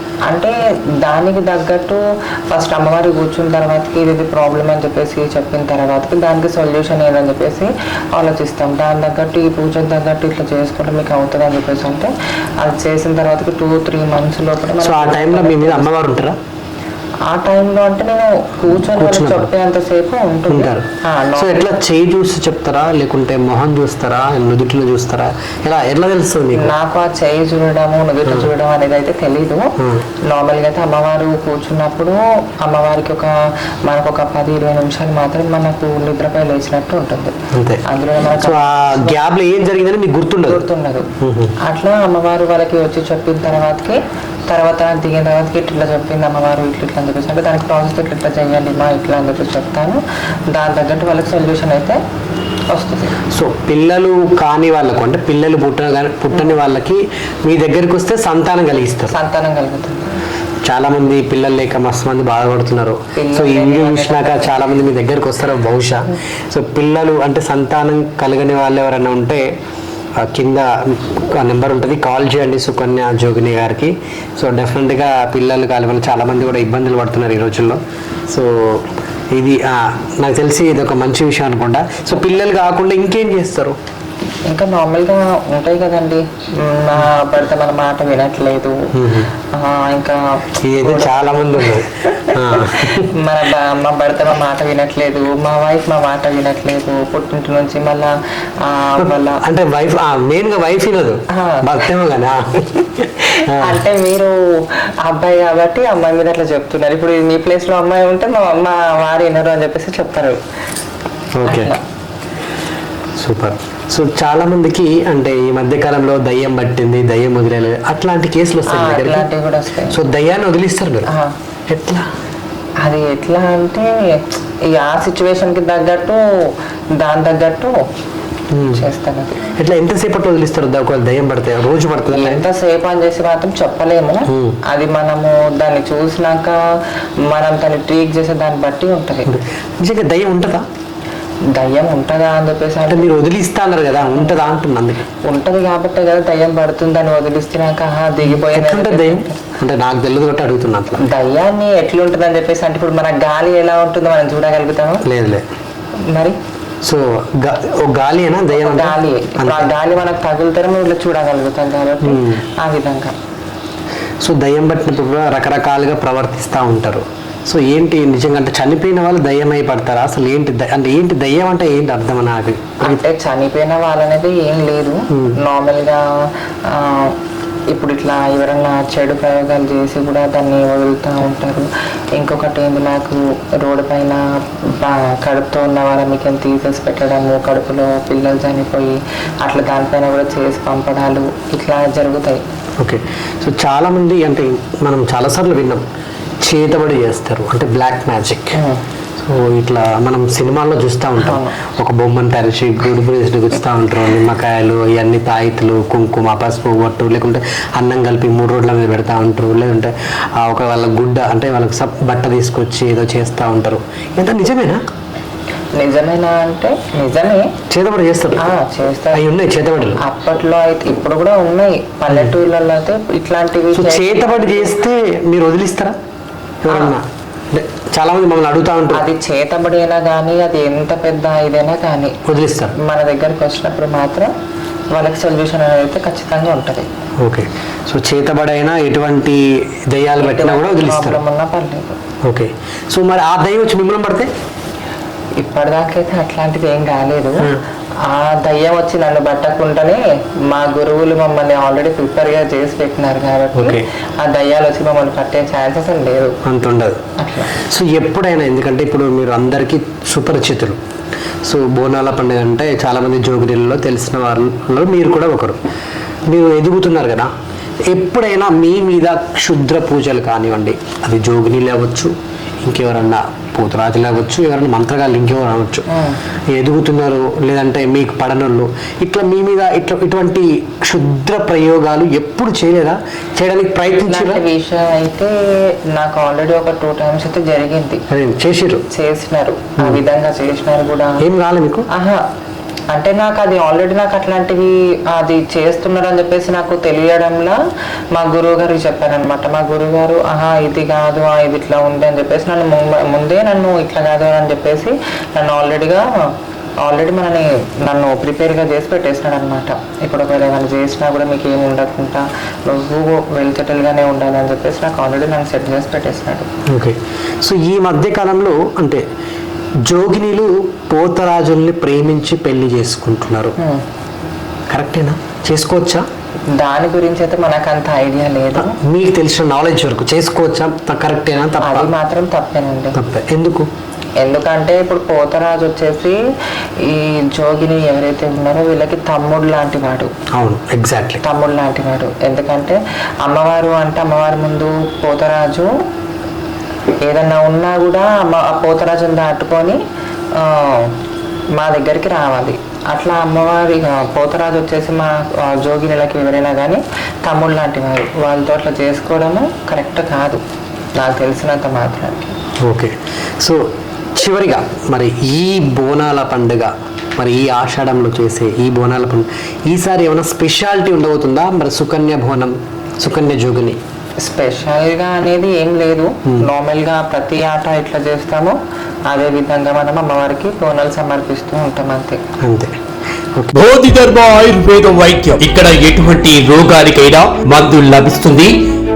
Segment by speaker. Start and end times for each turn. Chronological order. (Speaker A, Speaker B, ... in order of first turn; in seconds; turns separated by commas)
Speaker A: 0.3-15.9, Speaker B: 14.8-16.4, Speaker A: 17.3-21.7, Speaker B: 18.9-19.5, Speaker B: 20.5-26.7, Speaker A: 26.5-29.7, Speaker B: 28.2-28.5, Speaker A: 30.2-33.3, Speaker A: 33.9-39.2, Speaker B: 37.5-37.8, Speaker B: 38.4-40.6, Speaker A: 40.4-41.1, Speaker B: 41.2-41.5, Speaker A: 41.6-52.0, Speaker A: 52.7-53.1, Speaker B: 53.3-59.1, Speaker A: 56.3-56.6, Speaker A: 59.1-60.1, Speaker B: 60.6-69.4, Speaker A: 63.1-64.7, Speaker B: 70.2-83.8, Speaker A: 84.5-99.4, Speaker B: 88.9-89.3, Speaker B: 90.6-93.1, Speaker B: 99.0-103.8, Speaker A: 101.3-101.8, Speaker A: 103.3-110.4, Speaker B: 111.4-111.7, Speaker A: 111.4-111.8, Speaker B: 113.2-119.3, Speaker A: 118.7-120.0, Speaker B: 119.9-121.1, Speaker A: 121.1-121.3, Speaker B: 121.7-122.1, Speaker A: 122.8-127.7, Speaker B: 128.5-128.8, Speaker A: 128.7-129.5, Speaker B: 129.6-132.4, Speaker A: 132.1-136.6, Speaker B: 134.3-134.6, Speaker A: 137.2-139.3, Speaker B: 139.2-140.6, Speaker A: 141.5-143.1, Speaker B: 142.9-145.0, Speaker A: 145.2-149.4, Speaker B: 148.2-151.0, Speaker A: 151.0-155.0, Speaker B: 155.0-155.4, Speaker A: 156.1-156.4, Speaker B: 156.8-159.7, Speaker A: 158.5-163.1, Speaker B: 162.0-162.4, Speaker B: 164.2-173.0, Speaker A: 172.8-176.0, Speaker A: 176.7-177.1, Speaker A: 177.7-192.4, Speaker B: 192.8-195.8, Speaker B: 196.4-198.6, Speaker A: 198.5-198.8, Speaker B: 199.2-214.8, Speaker A: 201.2-201.5, Speaker A: 215.8-217.5, Speaker B: 217.7-218.4, Speaker A: 218.4-219.3, Speaker B: 219.1-220.0, Speaker A: 220.0-224.7, Speaker B: 223.7-225.9, Speaker B: 226.6-229.0, Speaker A: 226.7-227.0, Speaker A: 228.9-232.2, Speaker B: 232.2-232.7, Speaker A: 232.7-234.3, Speaker A: 234.9-236.9, Speaker B: 237.2-241.2, Speaker A: 240.2-242.0, Speaker B: 242.2-244.3, Speaker A: 245.4-247.5, Speaker A: 248.0-256.4, Speaker B: 253.6-253.8, Speaker B: 256.4-257.0, Speaker A: 257.2-257.5, Speaker B: 257.6-260.8, Speaker B: 261.4-265.6, Speaker B: 266.3-267.3, Speaker B: 267.9-275.9, Speaker A: 275.9-276.2, Speaker B: 276.5-284.4, Speaker A: 284.1-288.0, Speaker B: 288.1-288.8, Speaker A: 288.9-291.2, Speaker B: 291.2-291.9, Speaker A: 291.9-292.2, Speaker A: 292.9-297.6, Speaker A: 298.1-306.3, Speaker A: 306.8-316.5, Speaker B: 316.7-319.0, Speaker B: 319.9-323.5, Speaker B: 324.7-326.0, Speaker A: 326.5-328.7, Speaker B: 328.6-331.9, Speaker A: 331.6-333.0, Speaker B: 332.9-333.7, Speaker A: 334.2-336.2, Speaker A: 336.8-340.1, Speaker B: 340.3-341.2, Speaker A: 341.2-345.7, Speaker A: 347.0-349.8, Speaker A: 350.4-350.9, Speaker A: 351.6-360.4, Speaker A: 361.0-362.4, Speaker B: 362.6-363.6, Speaker B: 364.1-373.8, Speaker A: 374.2-378.6, Speaker A: 379.1-382.2, Speaker B: 382.4-382.8, Speaker C: 383.5-388.5